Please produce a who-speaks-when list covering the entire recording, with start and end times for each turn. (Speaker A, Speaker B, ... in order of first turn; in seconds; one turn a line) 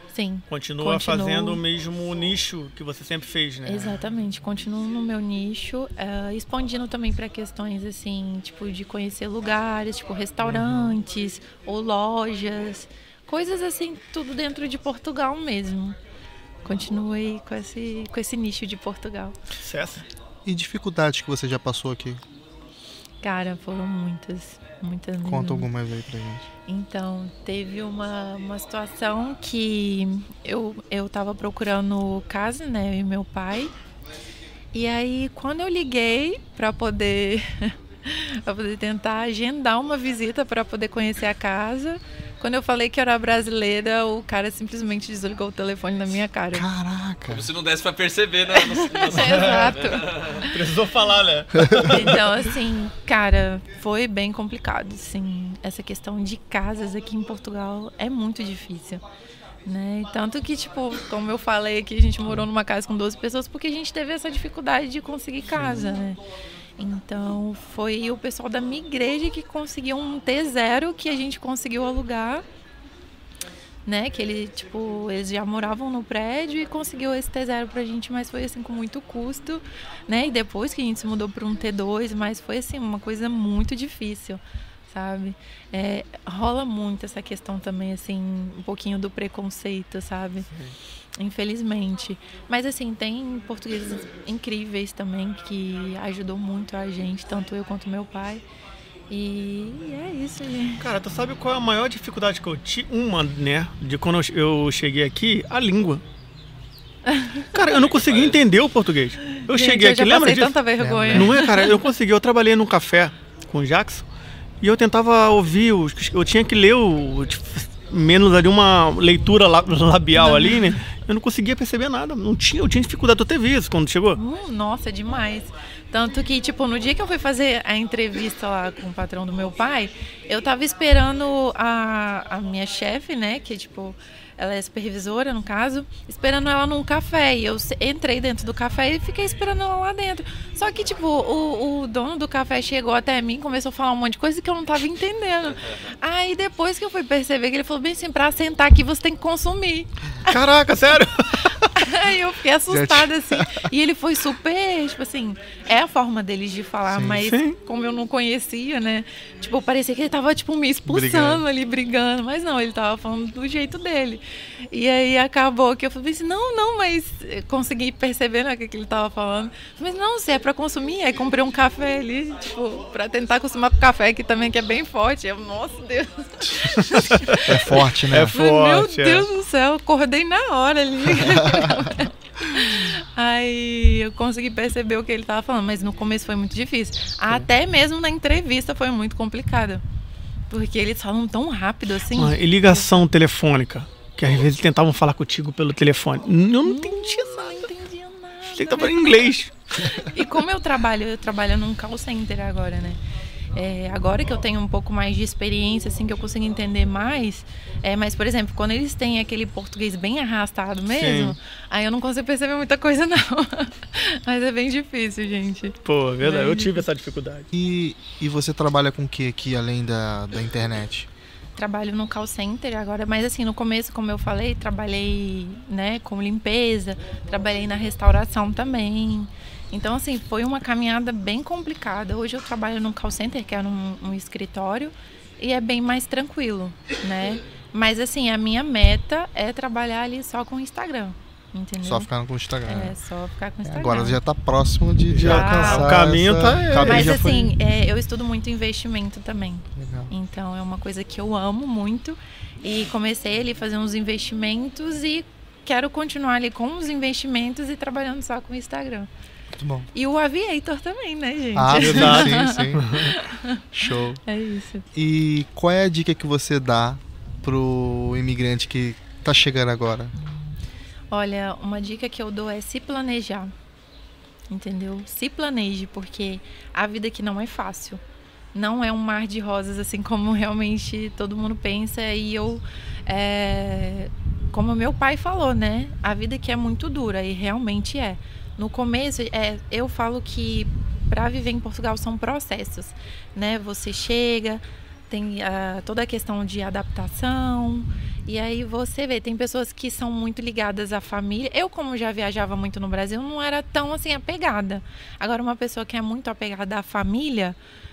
Speaker A: 0.1-1.6
Speaker B: 0.5-4.0
Speaker A: 3.6-16.0
Speaker B: 10.4-10.9
Speaker A: 16.6-19.4
Speaker B: 19.6-20.0
Speaker C: 20.4-22.2
Speaker A: 23.2-25.7
Speaker C: 25.2-26.5
Speaker A: 26.7-33.7
Speaker A: 34.7-46.7
Speaker C: 46.5-47.5
Speaker D: 47.3-50.4
Speaker A: 48.5-50.5
Speaker B: 49.2-49.8
Speaker B: 50.4-52.2
Speaker C: 51.6-52.0
Speaker A: 51.7-59.0
Speaker A: 59.6-66.2
Speaker A: 66.8-72.4
Speaker A: 73.8-90.5
Speaker B: 90.5-90.8
Speaker A: 91.2-98.4
Speaker A: 99.1-100.8
Speaker B: 100.8-106.0
Speaker A: 107.0-107.6
Speaker B: 107.5-110.6
Speaker A: 109.3-111.7
Speaker C: 110.8-111.4
Speaker B: 111.1-114.0
Speaker B: 114.6-124.2
Speaker A: 120.2-120.7
Speaker A: 124.2-150.4
Speaker B: 150.3-151.5
Speaker A: 151.5-177.7
Speaker C: 152.7-153.7
Speaker C: 156.9-157.2
Speaker B: 157.3-157.6
Speaker C: 160.8-161.4
Speaker B: 176.5-179.3
Speaker C: 177.4-178.3
Speaker A: 178.3-189.8
Speaker C: 181.3-181.8
Speaker A: 190.5-192.9
Speaker B: 192.1-197.7
Speaker A: 196.6-203.0
Speaker B: 198.5-199.5
Speaker A: 203.5-216.8
Speaker B: 210.9-211.4
Speaker B: 215.8-217.5
Speaker C: 217.5-221.1
Speaker A: 221.6-242.1
Speaker C: 241.8-242.9
Speaker A: 242.6-244.2
Speaker C: 243.6-247.5
Speaker B: 245.1-247.2
Speaker A: 245.2-246.0
Speaker A: 246.8-259.1
Speaker C: 249.7-250.1
Speaker C: 259.5-259.9
Speaker A: 259.9-263.6
Speaker C: 261.5-263.1
Speaker B: 261.7-263.1
Speaker C: 263.7-264.2
Speaker A: 264.2-264.9
Speaker C: 264.9-270.1
Speaker A: 271.1-273.5
Speaker A: 274.5-278.0
Speaker A: 278.5-307.6